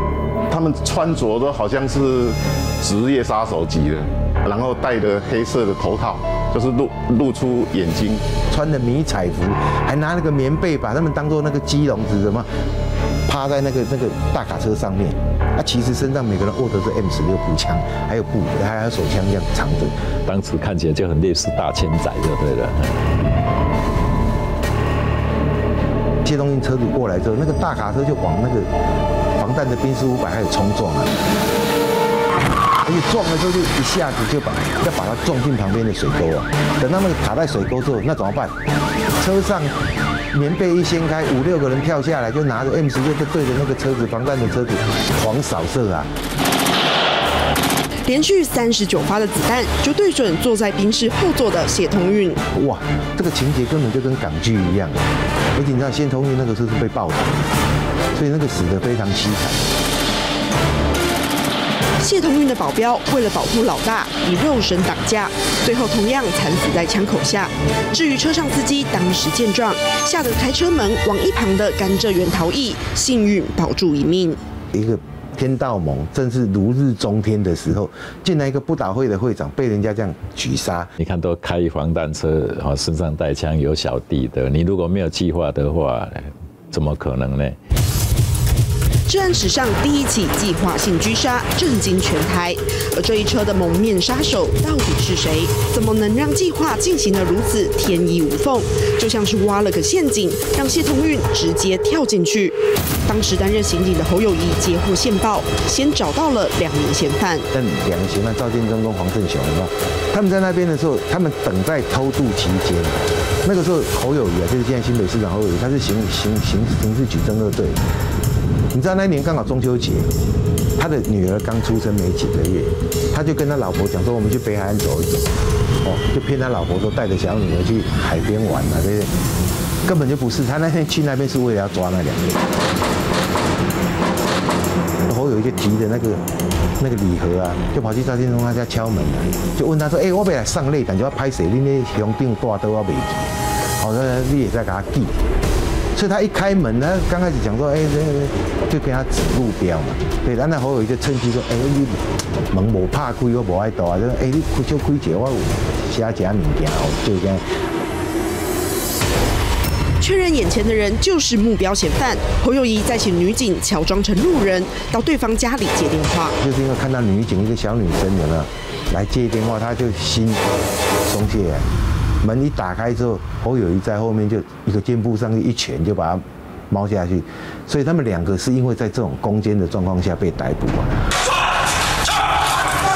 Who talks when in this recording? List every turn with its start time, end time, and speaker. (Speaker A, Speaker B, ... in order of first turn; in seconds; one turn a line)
Speaker A: 0.5-8.4
Speaker B: 8.4-12.5
Speaker B: 13.3-19.9
Speaker C: 20.2-23.0
Speaker B: 26.2-28.7
Speaker B: 29.4-31.1
Speaker B: 32.8-38.5
Speaker B: 39.2-39.7
Speaker B: 40.3-46.1
Speaker D: 48.1-52.4
Speaker B: 52.5-55.0
Speaker B: 55.5-57.5
Speaker B: 58.1-59.7
Speaker D: 62.0-74.4
Speaker B: 74.7-80.9
Speaker C: 81.0-87.6
Speaker D: 89.1-107.5
Speaker B: 107.5-117.8
Speaker B: 118.7-120.1
Speaker B: 120.8-125.2
Speaker B: 125.8-129.1
Speaker B: 129.8-132.4
Speaker B: 135.1-136.2
Speaker B: 136.8-143.2
Speaker B: 143.8-145.2
Speaker B: 145.9-157.4
Speaker D: 160.0-166.3
Speaker B: 166.4-170.4
Speaker B: 171.1-171.7
Speaker B: 172.2-181.1